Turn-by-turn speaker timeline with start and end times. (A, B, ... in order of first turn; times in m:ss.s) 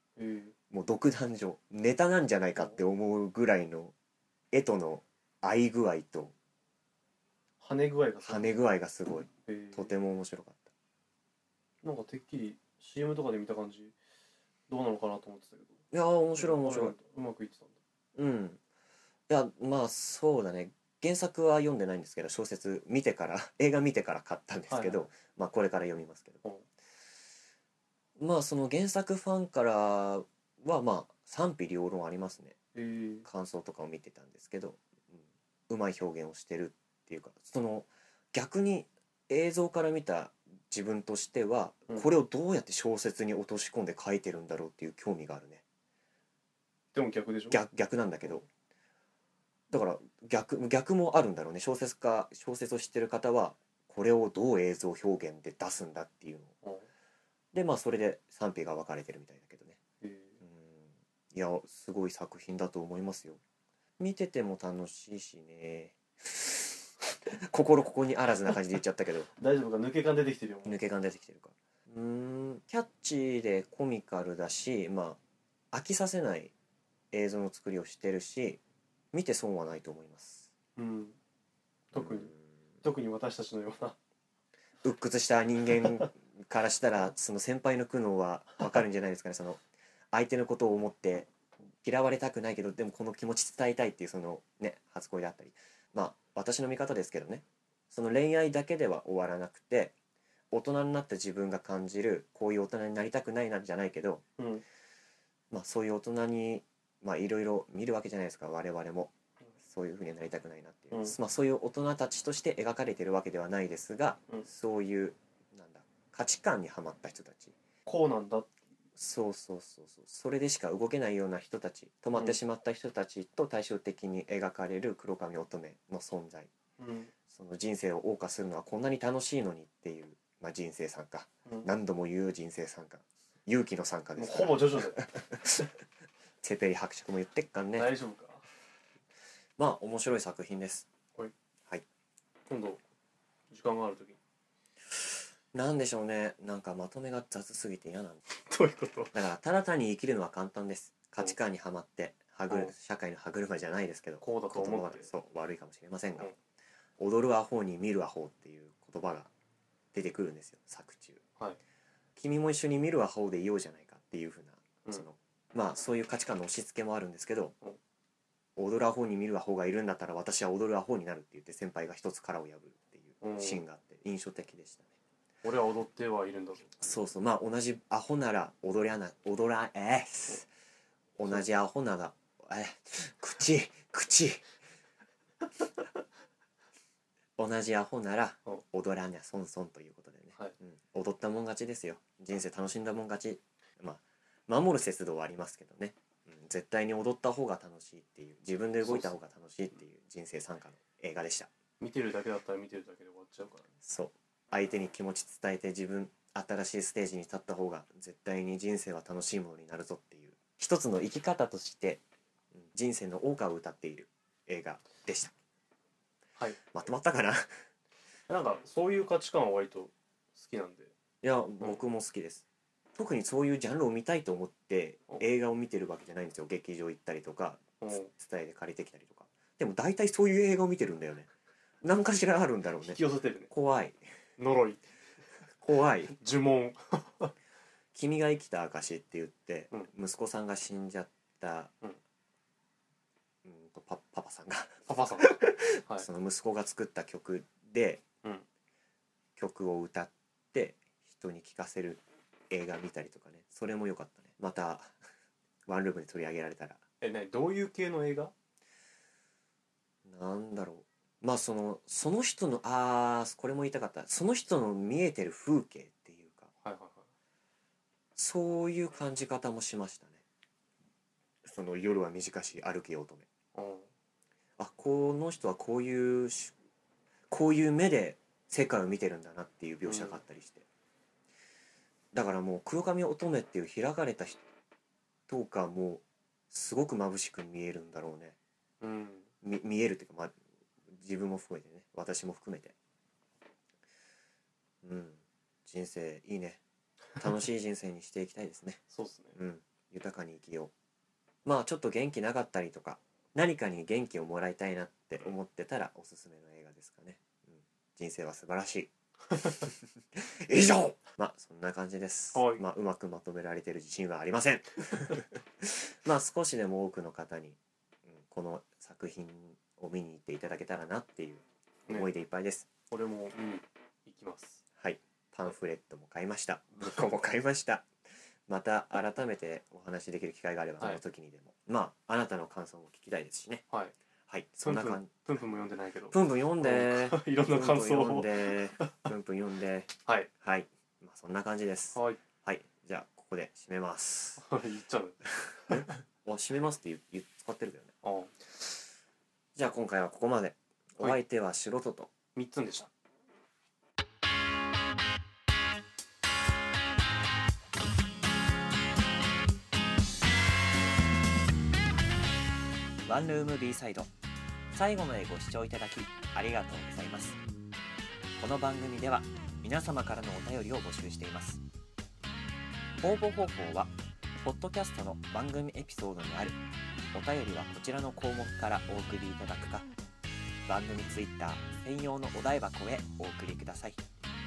0:00.2-0:00.5 A
0:00.7-0:03.9 B
0:04.5-0:06.3 B
0:07.6-0:08.6 A
0:08.2-0:10.7 B
0:09.5-0:09.9 A
0:11.8-0:14.0 A
0:14.7-0:15.8 A
0:15.9-0:17.0 B
0:16.4-0:17.8 A
0:18.1-0:18.6 B
0:19.3-0:26.4 B
0:24.7-0:25.1 A
0:28.2-0:32.6 B
0:32.8-0:33.3 A
0:33.2-0:45.6 B
0:46.9-0:47.6 A
0:47.5-0:48.4 B
0:49.7-0:56.5 B
0:56.6-0:56.9 A
0:57.5-0:59.8 B
1:00.0-1:00.4 A
1:00.4-1:03.4 B
1:04.0-1:09.3 B
1:09.4-1:10.8 A
1:10.6-1:15.2 B
1:15.7-1:16.5 B
1:17.1-1:18.6 B
1:19.1-1:20.5 B
1:20.8-1:21.2 A
1:21.9-1:22.3 A
1:22.0-1:22.4 B
1:22.8-1:24.0 A
1:24.8-1:29.6 B
1:30.1-1:31.3 B
1:31.8-1:40.0 B
1:40.5-1:44.2 B
1:44.4-1:44.6 A
1:45.5-1:57.6 B
1:57.9-1:58.6 A
1:59.0-2:06.5 B
2:06.8-2:07.1 A
2:07.3-2:15.7 B
2:14.2-2:15.1 A
2:16.4-2:18.0 B
2:17.8-2:18.5 A
2:19.6-2:20.9 B
2:22.5-2:22.8 A
2:23.5-2:24.2 A
2:25.5-2:28.2 B
2:28.4-2:29.1 A
2:29.1-2:36.3 B
2:34.2-2:35.1 A
2:37.0-2:39.3 B
2:39.9-2:41.2 B
2:42.2-2:47.5 B
2:48.6-2:54.9 B
2:53.2-2:53.6 A
2:55.4-2:56.8 A
2:56.8-3:00.5 B
3:01.2-3:04.5 B
3:07.4-3:21.5 B
3:18.8-3:19.1 A
3:21.8-3:23.7 A
3:23.8-3:32.0 B
3:32.6-3:35.3 B
3:36.7-3:37.5 B
3:38.3-3:40.9 A
3:41.2-3:51.3 B
3:47.8-3:48.1 A
3:51.8-3:54.0 B
3:52.8-3:53.5 A
3:54.4-3:54.9 A
3:55.6-3:56.2 B
3:56.2-3:57.3 A
3:57.9-4:01.7 B
4:03.4-4:08.0 B
4:04.9-4:06.1 A
4:09.4-4:14.9 B
4:15.6-4:16.8 B
4:17.0-4:18.3 A
4:20.0-4:26.5 B
4:26.6-4:27.0 A
4:28.2-4:30.2 B
4:31.4-4:33.3 B
4:33.5-4:33.9 A
4:34.6-4:36.5 B
4:37.3-4:40.6 B
4:39.8-4:40.2 A
4:42.1-4:44.4 B
4:45.3-4:48.4 B
4:48.8-4:49.3 A
4:49.4-4:50.3 B
4:50.9-4:52.8 B
4:54.8-4:56.6 B
4:57.2-4:58.8 B
4:58.9-4:59.4 A
4:59.4-5:00.7 B
5:01.4-5:22.7 B
5:12.3-5:12.6 A
5:22.9-5:24.6 A
5:24.8-5:27.9 B
5:28.5-5:33.6 B
5:34.3-5:35.1 B
5:34.6-5:39.1 A
5:36.1-5:44.4 B
5:41.9-5:42.2 A
5:44.4-5:45.9 A
5:45.7-5:47.9 B
5:48.0-5:48.4 A
5:49.6-5:52.1 B
5:52.4-5:52.9 A
6:03.0-6:04.1 B
6:04.7-6:07.4 B
6:08.4-6:11.6 B
6:13.0-6:16.6 B
6:17.1-6:19.9 B
6:20.6-6:24.0 B